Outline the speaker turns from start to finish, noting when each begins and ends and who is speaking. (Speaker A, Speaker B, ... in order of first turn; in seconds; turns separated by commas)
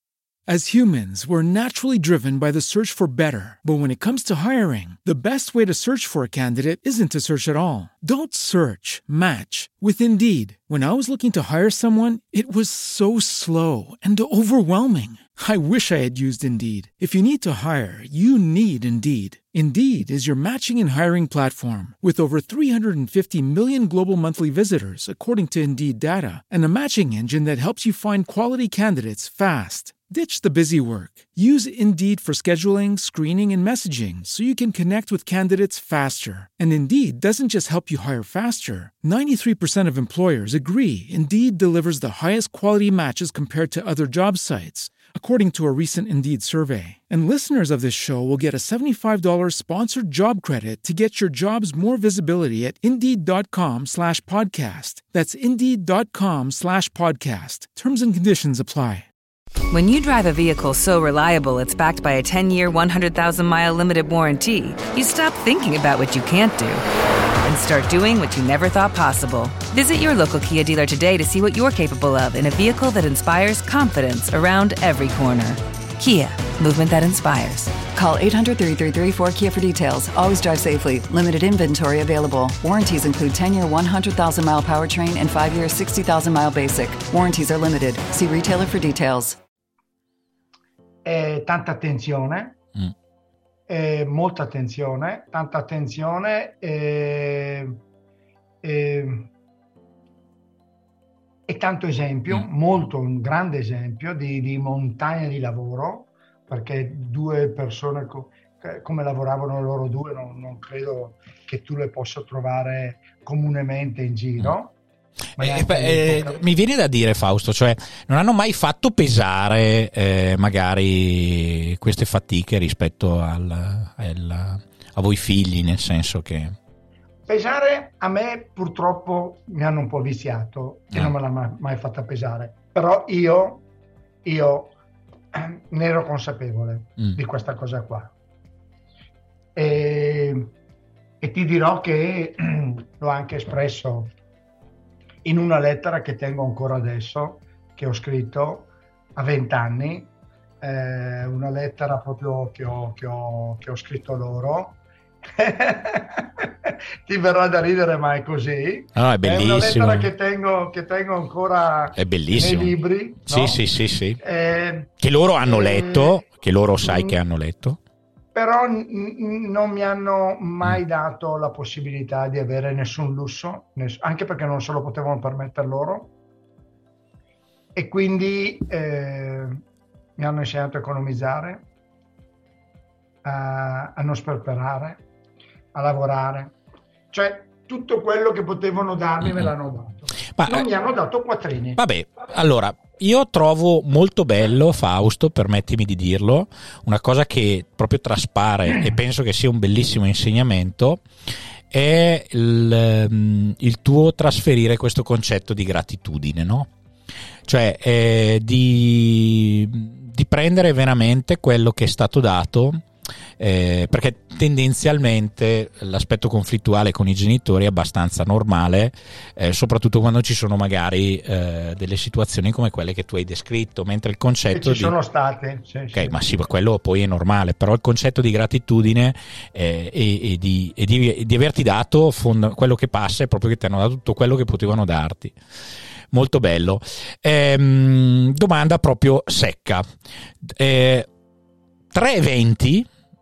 Speaker A: 0.5-59.1, Speaker B: 59.7-66.8, Speaker B: 67.4-77.8, Speaker C: 77.9-89.4, Speaker D: 91.0-92.6, Speaker D: 93.7-97.8, Speaker D: 98.6-99.3, Speaker D: 101.5-114.7, Speaker D: 115.4-116.4, Speaker E: 115.4-126.5, Speaker D: 127.3-133.6, Speaker D: 134.2-134.7, Speaker D: 135.3-138.1, Speaker D: 139.6-140.5, Speaker D: 141.2-144.1, Speaker D: 145.2-150.1, Speaker D: 150.6-163.6, Speaker E: 159.0-160.1, Speaker E: 161.9-162.7, Speaker E: 163.2-164.2, Speaker D: 164.2-164.9, Speaker E: 165.0-167.8, Speaker D: 165.4-166.2, Speaker D: 166.8-167.2, Speaker D: 168.3-176.1, Speaker D: 177.7-179.6, Speaker D: 180.2-181.6, Speaker D: 183.2-185.0, Speaker D: 185.7-186.5, Speaker D: 187.1-191.8, Speaker E: 189.2-189.5, Speaker E: 190.4-190.7, Speaker E: 191.8-201.0, Speaker E: 201.7-206.7, Speaker E: 207.4-212.8, Speaker E: 213.4-224.9, Speaker D: 224.5-226.1, Speaker E: 225.9-235.3, Speaker E: 236.1-239.8, Speaker E: 240.4-241.1, Speaker E: 241.9-242.9